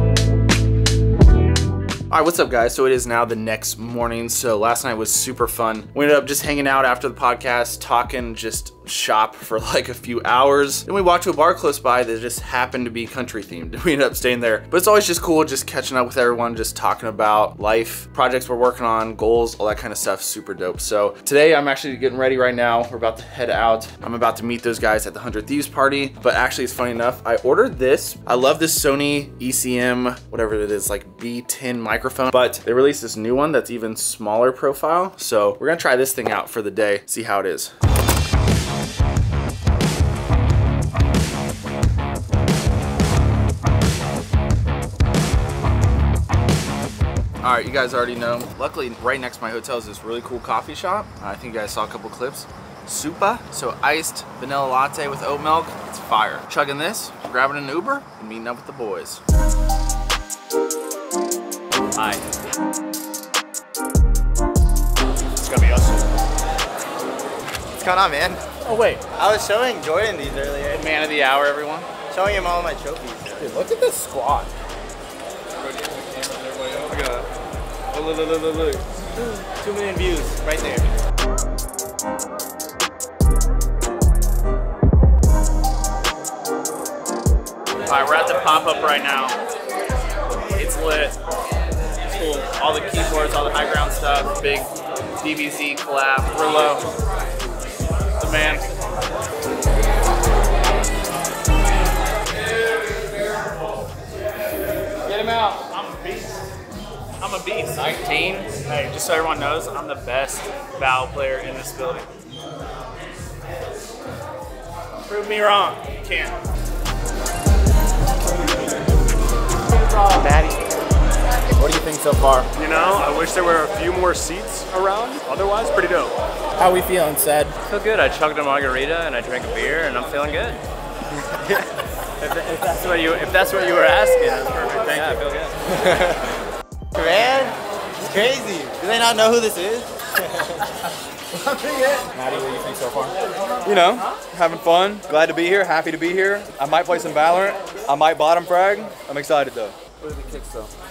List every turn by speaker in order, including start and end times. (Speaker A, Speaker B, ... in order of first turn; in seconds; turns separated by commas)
Speaker A: 2.1-37.7, Speaker A: 47.4-59.2, Speaker B: 62.0-62.2, Speaker A: 65.4-66.0, Speaker C: 67.7-68.4, Speaker A: 68.6-69.0, Speaker C: 69.1-70.9, Speaker A: 70.7-71.9, Speaker C: 72.1-73.6, Speaker A: 73.4-74.5, Speaker D: 75.6-77.2, Speaker D: 78.0-78.8, Speaker A: 78.0-78.4, Speaker C: 79.2-80.9, Speaker A: 87.9-89.4, Speaker A: 90.5-91.2, Speaker A: 92.1-96.8, Speaker A: 98.2-98.9, Speaker D: 105.0-105.6, Speaker A: 105.1-106.4, Speaker A: 107.2-112.1, Speaker D: 107.9-108.3, Speaker A: 115.0-116.4, Speaker C: 120.0-120.6, Speaker A: 121.6-122.5, Speaker E: 122.6-126.1, Speaker A: 126.6-127.5, Speaker B: 127.6-130.6, Speaker C: 131.4-131.7, Speaker B: 132.2-135.5, Speaker C: 135.7-136.2, Speaker C: 136.9-140.0, Speaker A: 142.1-143.1, Speaker D: 143.6-149.8, Speaker A: 150.0-150.7